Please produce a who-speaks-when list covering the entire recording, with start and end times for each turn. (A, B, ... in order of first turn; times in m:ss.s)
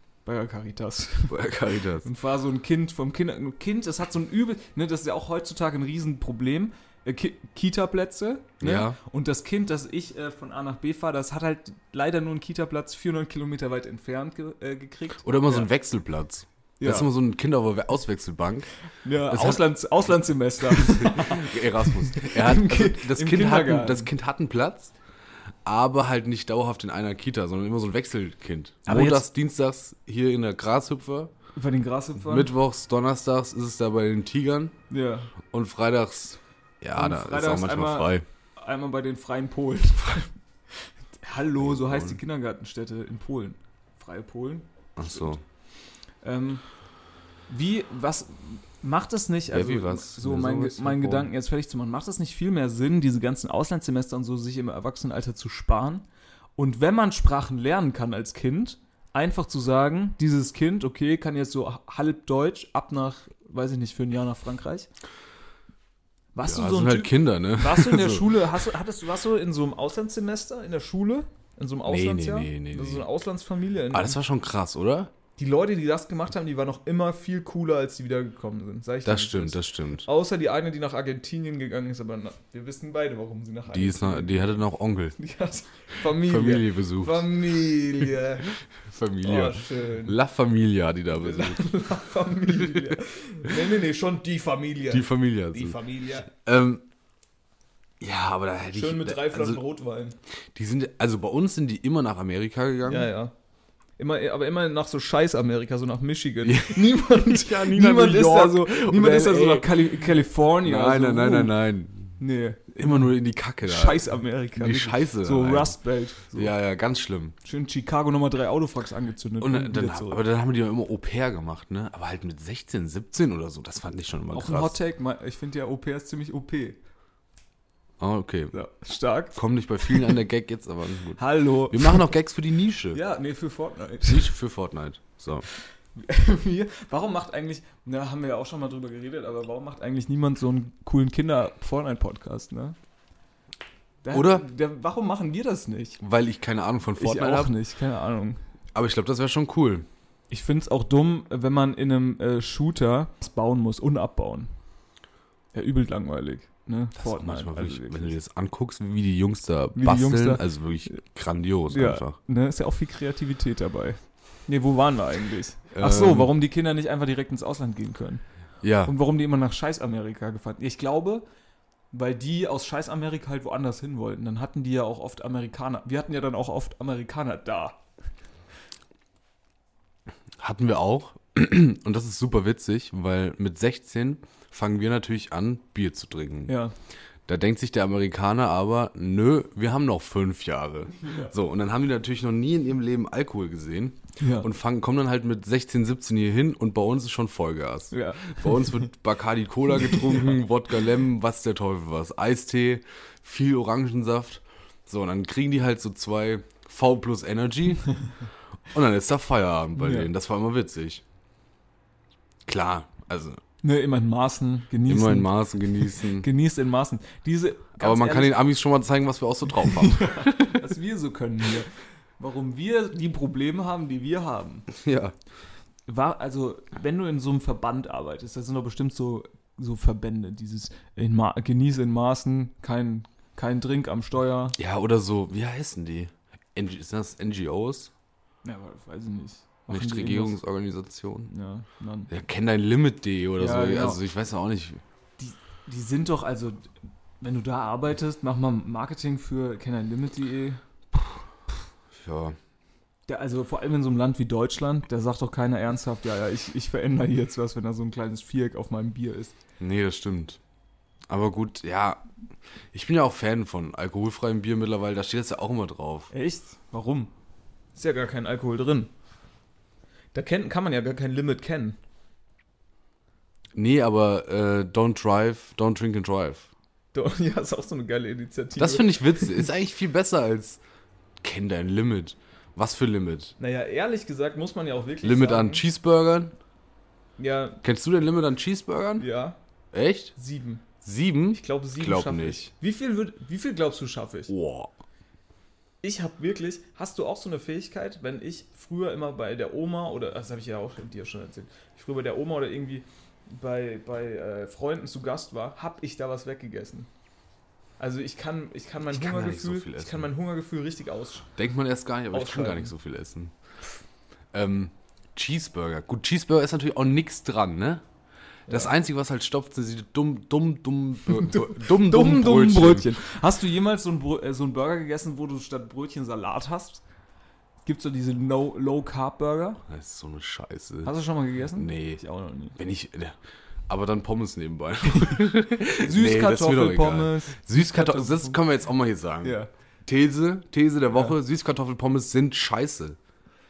0:00.2-0:01.4 A
0:01.3-0:02.1 B
0:02.0-0:15.7 A
0:08.6-0:09.0 B
0:15.2-0:18.7 B
0:16.8-0:17.1 A
0:19.0-0:24.1 A
0:19.3-0:19.6 B
0:20.7-0:24.9 B
0:25.6-0:31.3 B
0:28.8-0:29.2 A
0:31.6-0:32.5 A
0:32.2-0:34.7 B
0:34.9-0:35.3 A
0:35.5-0:38.2 B
0:36.9-0:45.4 A
0:41.6-0:42.2 B
0:45.0-0:45.4 B
0:46.2-0:46.6 A
0:47.5-0:56.0 A
0:49.5-0:51.3 B
0:56.6-1:04.9 A
1:06.3-1:14.2 A
1:06.4-1:08.3 B
1:11.8-1:13.1 B
1:13.9-1:15.1 B
1:15.4-1:24.4 A
1:19.0-1:20.0 B
1:23.7-1:25.2 B
1:25.2-1:28.5 A
1:26.0-1:27.3 B
1:28.8-1:31.6 B
1:29.2-1:30.2 A
1:31.1-1:36.3 A
1:34.9-1:36.8 B
1:38.0-1:39.6 B
1:38.7-1:40.2 A
1:40.5-1:43.1 B
1:42.8-1:43.3 A
1:44.0-1:51.5 A
1:46.4-1:49.8 B
1:50.6-1:52.2 B
1:52.2-1:53.1 A
1:52.7-1:54.0 B
1:53.6-1:56.5 A
1:54.6-1:55.8 B
1:56.3-1:57.3 B
1:57.4-2:00.2 A
1:59.4-2:04.7 B
2:04.3-2:06.8 A
2:08.0-2:08.5 B
2:08.5-2:10.1 A
2:09.3-2:13.0 B
2:11.2-2:12.1 A
2:12.9-2:14.3 A
2:14.0-2:15.4 B
2:15.9-2:22.8 A
2:24.0-2:26.0 A
2:24.1-2:24.4 B
2:26.0-2:27.5 B
2:27.0-2:28.4 A
2:28.7-2:29.9 B
2:30.3-2:34.5 A
2:35.5-2:38.2 A
2:37.0-2:42.2 B
2:39.7-2:41.0 A
2:41.7-2:48.2 A
2:45.7-2:46.3 B
2:48.6-2:48.9 B
2:48.8-2:51.2 A
2:51.9-2:57.8 A
3:00.4-3:06.5 B
3:06.5-3:06.7 A
3:07.3-3:27.9 B
3:11.0-3:11.3 A
3:14.2-3:14.5 A
3:17.9-3:18.9 A
3:19.7-3:20.4 A
3:28.7-3:31.0 B
3:29.8-3:30.1 A
3:32.4-3:33.4 B
3:33.6-3:38.4 A
3:34.8-3:36.3 B
3:37.8-3:40.6 B
3:39.6-3:44.7 A
3:44.7-3:45.1 B
3:45.9-3:54.6 A
3:54.6-3:57.9 B
3:58.4-4:00.4 A
3:59.7-4:01.3 B
4:01.3-4:02.1 A
4:02.1-4:04.8 B
4:03.4-4:04.0 A
4:05.2-4:10.6 A
4:11.9-4:12.4 B
4:13.1-4:19.4 A
4:19.6-4:20.4 B
4:21.1-4:22.0 B
4:22.7-4:26.1 B
4:26.1-4:27.1 A
4:27.7-4:28.9 A
4:30.1-4:31.8 A
4:33.5-4:36.5 B
4:36.9-4:39.4 A
4:38.6-4:40.6 B
4:41.2-4:43.3 B
4:43.4-4:45.6 A
4:45.0-4:46.3 B
4:47.2-4:47.6 A
4:47.6-4:49.1 B
4:49.0-4:49.4 A
4:49.7-4:50.1 B
4:50.2-4:50.6 A
4:50.8-4:52.5 B
4:51.3-4:54.3 A
4:54.3-4:54.7 B
4:55.8-5:06.9 A
5:07.8-5:11.3 A
5:08.8-5:10.1 B
5:11.4-5:13.3 B
5:12.1-5:12.7 A
5:14.3-5:17.8 B
5:18.5-5:22.9 B
5:21.1-5:26.8 A
5:27.6-5:29.6 A
5:29.7-5:30.9 B
5:30.8-5:32.6 A
5:31.5-5:32.0 B
5:32.6-5:43.0 B
5:35.7-5:38.4 A
5:39.2-5:39.5 A